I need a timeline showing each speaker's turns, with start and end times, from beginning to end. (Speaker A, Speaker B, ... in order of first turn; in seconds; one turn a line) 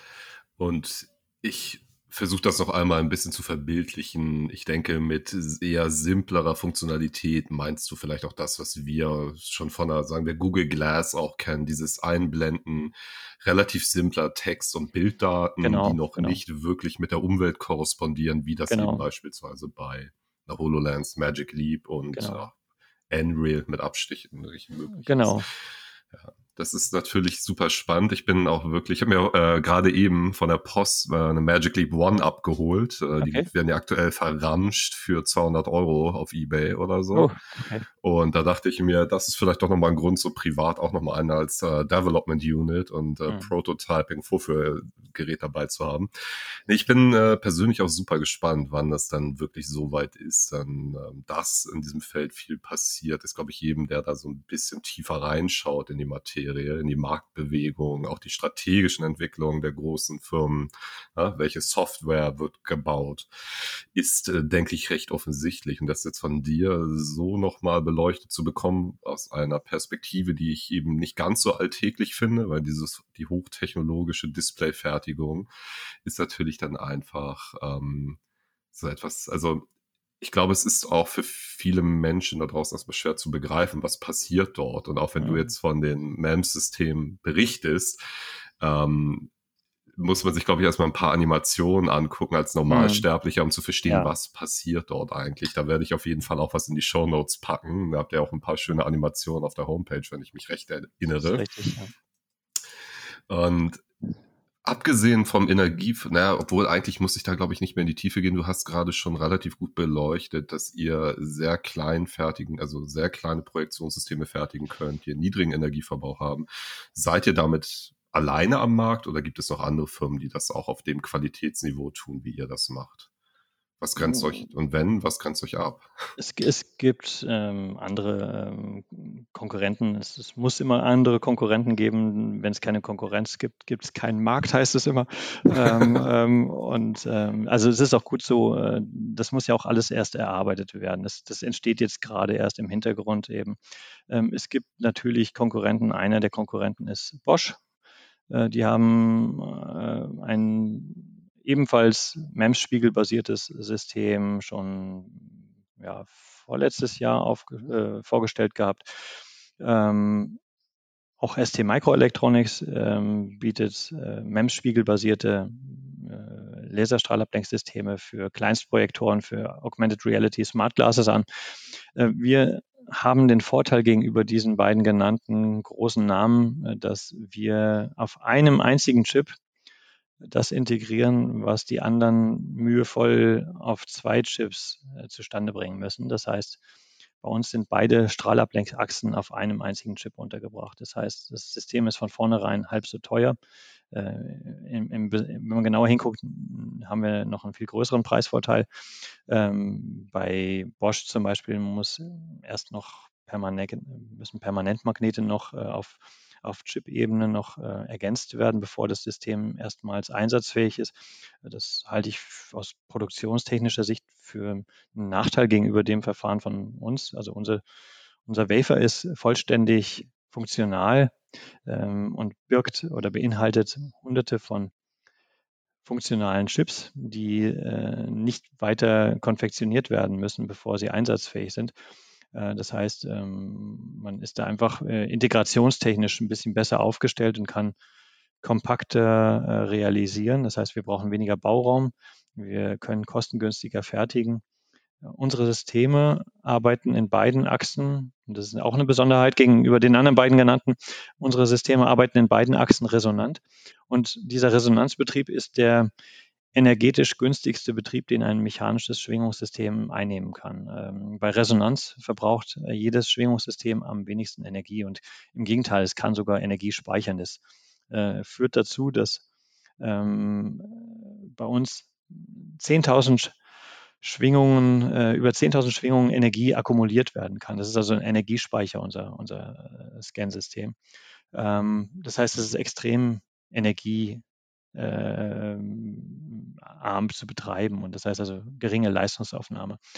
Speaker A: 0.6-22.6
Speaker B: 15.6-16.4
Speaker B: 18.7-19.0
Speaker B: 22.1-22.5
Speaker A: 23.1-25.4
Speaker B: 25.0-25.5
Speaker A: 26.1-37.3
Speaker B: 33.2-33.5
Speaker B: 37.1-37.9
Speaker A: 38.0-46.1
Speaker A: 46.7-75.5
Speaker A: 76.0-78.2
Speaker A: 78.7-79.7
Speaker A: 80.2-88.0
Speaker B: 85.2-85.5
Speaker A: 88.6-89.3
Speaker A: 90.0-101.5
Speaker B: 92.7-93.0
Speaker B: 93.9-94.1
Speaker B: 101.2-101.9
Speaker A: 103.3-103.8
Speaker A: 104.6-123.1
Speaker A: 123.8-125.9
Speaker B: 124.0-124.3
Speaker B: 126.2-143.6
Speaker B: 144.1-147.6
Speaker B: 148.3-160.4
Speaker B: 161.2-179.3
Speaker B: 180.2-186.6
Speaker B: 187.2-193.4
Speaker B: 193.9-198.7
Speaker B: 199.3-217.6
Speaker B: 218.3-221.2
Speaker B: 221.7-224.7
Speaker B: 225.8-231.7
Speaker B: 232.3-237.8
Speaker B: 238.4-244.4
Speaker B: 245.0-255.9
Speaker B: 256.5-269.2
Speaker B: 269.8-273.4
Speaker B: 274.0-280.8
Speaker B: 281.3-284.2
Speaker B: 284.8-289.8